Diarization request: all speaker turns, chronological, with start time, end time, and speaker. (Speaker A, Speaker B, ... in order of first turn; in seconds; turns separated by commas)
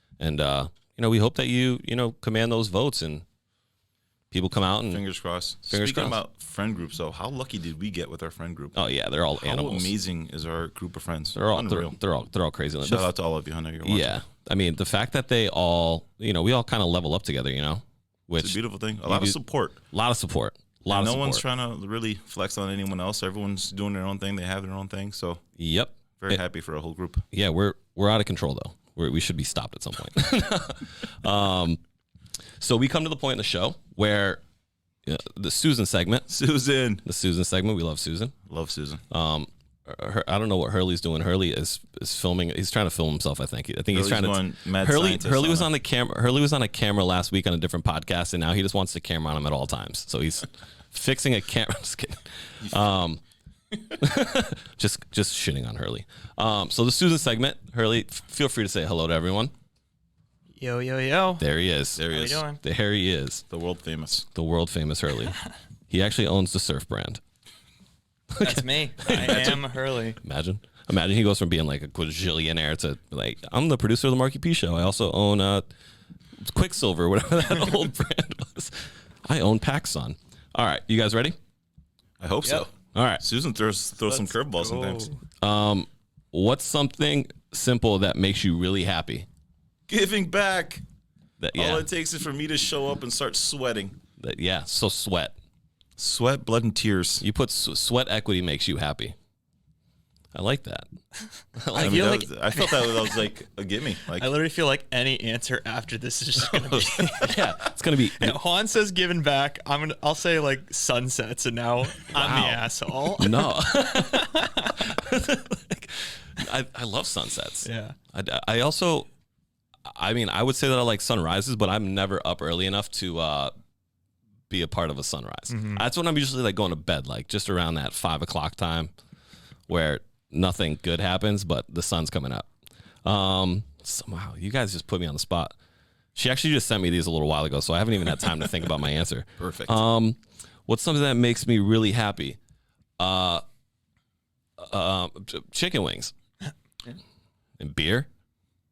Speaker A: 0.2-3.2, Speaker A: 4.3-5.0, Speaker B: 4.9-8.8, Speaker A: 5.7-6.2, Speaker A: 8.7-9.9, Speaker B: 9.4-12.0, Speaker A: 11.3-13.1, Speaker B: 12.8-14.2, Speaker A: 13.8-19.4, Speaker B: 18.4-19.8, Speaker A: 19.9-21.4, Speaker B: 20.9-25.4, Speaker A: 25.6-26.4, Speaker B: 26.2-27.2, Speaker A: 27.3-31.8, Speaker A: 32.6-34.4, Speaker A: 35.1-36.3, Speaker B: 36.3-37.0, Speaker A: 37.0-38.3, Speaker B: 38.5-39.0, Speaker A: 39.1-53.2, Speaker B: 43.9-45.7, Speaker A: 54.0-59.5, Speaker C: 60.6-61.4, Speaker A: 61.4-63.4, Speaker B: 62.0-62.4, Speaker C: 62.1-62.6, Speaker B: 63.5-64.3, Speaker A: 64.3-67.2, Speaker A: 68.3-69.7, Speaker C: 68.4-70.2, Speaker A: 70.2-75.7, Speaker A: 76.4-81.4, Speaker B: 82.2-85.1, Speaker A: 82.9-83.2, Speaker C: 84.1-85.2, Speaker A: 85.4-89.3, Speaker B: 89.9-90.8, Speaker A: 91.4-91.8, Speaker B: 91.5-94.0, Speaker A: 94.2-95.3, Speaker B: 96.0-97.2, Speaker A: 97.2-99.2, Speaker A: 100.3-100.9, Speaker A: 101.5-102.2, Speaker C: 101.8-103.2, Speaker B: 101.8-104.3, Speaker C: 104.1-107.5, Speaker A: 107.2-108.4, Speaker C: 108.1-114.8, Speaker A: 112.1-119.1, Speaker C: 117.6-118.0, Speaker A: 119.9-123.5, Speaker A: 124.5-128.9, Speaker C: 125.5-125.8, Speaker A: 129.7-132.5, Speaker A: 133.1-135.5, Speaker A: 136.1-142.4, Speaker B: 139.4-139.8, Speaker A: 143.0-143.4, Speaker A: 144.6-146.1, Speaker A: 147.6-148.1